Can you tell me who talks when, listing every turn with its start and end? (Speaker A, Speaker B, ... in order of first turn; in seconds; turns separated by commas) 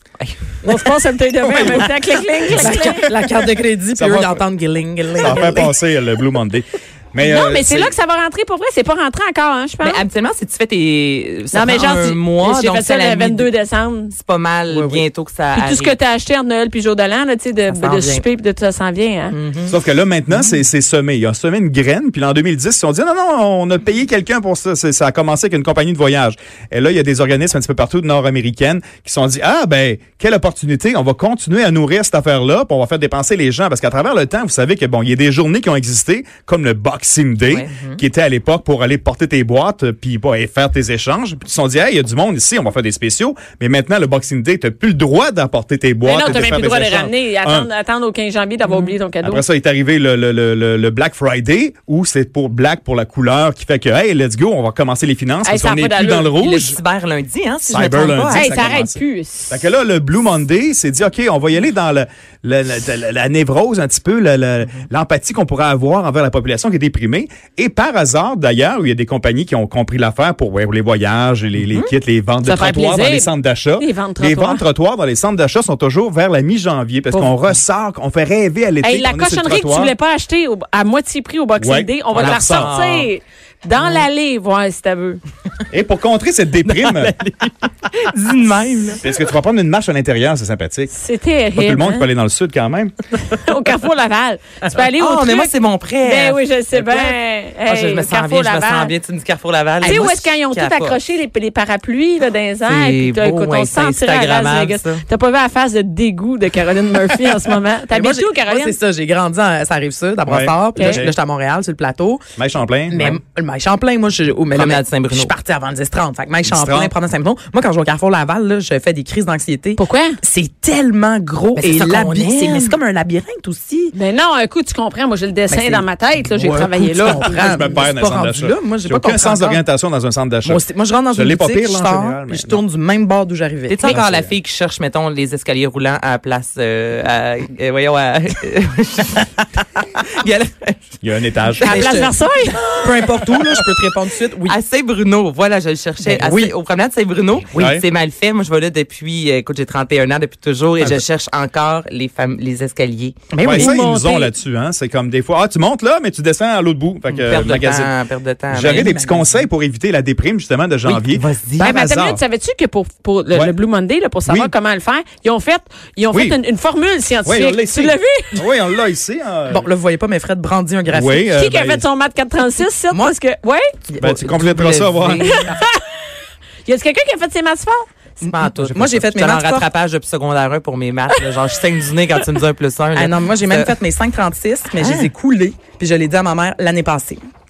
Speaker A: 0.6-3.0, Speaker B: 2.5-5.7, Speaker C: 3.9-4.4, Speaker C: 5.2-7.9, Speaker A: 7.2-10.0, Speaker D: 9.8-13.5, Speaker A: 11.5-14.1, Speaker D: 14.1-16.0, Speaker B: 14.7-15.0, Speaker A: 15.6-19.4, Speaker D: 17.7-18.2, Speaker B: 19.3-19.7, Speaker C: 19.7-47.7, Speaker D: 37.5-37.8, Speaker A: 46.0-49.4, Speaker D: 48.7-48.9, Speaker C: 49.2-56.8, Speaker A: 55.4-56.4, Speaker D: 56.4-58.6, Speaker C: 57.6-80.0, Speaker A: 58.3-59.6, Speaker A: 72.4-74.6, Speaker A: 77.1-77.4, Speaker A: 78.8-85.2, Speaker C: 81.6-82.7, Speaker D: 82.1-83.1, Speaker C: 85.7-87.2, Speaker D: 86.8-89.0, Speaker C: 89.0-90.9, Speaker A: 90.9-92.1, Speaker C: 91.5-93.0, Speaker A: 93.2-98.9, Speaker D: 95.0-101.0, Speaker A: 99.8-108.8, Speaker D: 102.7-105.0, Speaker B: 107.9-112.2, Speaker C: 110.3-111.1, Speaker A: 110.8-111.0, Speaker C: 112.4-113.2, Speaker B: 112.9-123.9, Speaker D: 114.5-115.3, Speaker C: 116.4-116.9, Speaker A: 119.8-120.2, Speaker D: 121.6-122.8, Speaker A: 123.9-127.5, Speaker B: 125.5-129.6, Speaker C: 127.2-132.6, Speaker B: 130.4-134.0, Speaker D: 133.7-140.9, Speaker C: 133.9-134.3, Speaker C: 141.0-141.8, Speaker D: 141.6-142.1, Speaker B: 141.6-144.6, Speaker A: 141.6-142.6, Speaker D: 142.9-143.7, Speaker D: 144.4-153.3, Speaker B: 146.0-146.5, Speaker C: 147.6-147.8, Speaker B: 153.3-153.8, Speaker C: 153.4-157.9, Speaker A: 153.5-154.3, Speaker D: 157.3-158.9, Speaker C: 158.5-162.2, Speaker B: 158.6-159.5, Speaker D: 160.9-161.7, Speaker A: 161.6-168.3, Speaker C: 164.3-164.5, Speaker C: 166.1-166.4, Speaker C: 167.2-169.7, Speaker B: 169.5-171.3, Speaker C: 170.9-171.8, Speaker A: 171.3-173.7, Speaker B: 173.9-174.5, Speaker C: 174.0-175.4, Speaker D: 174.4-175.4, Speaker A: 175.2-175.8, Speaker A: 176.7-177.9, Speaker B: 178.2-179.7, Speaker D: 178.2-183.8, Speaker B: 182.9-187.2, Speaker D: 184.8-185.1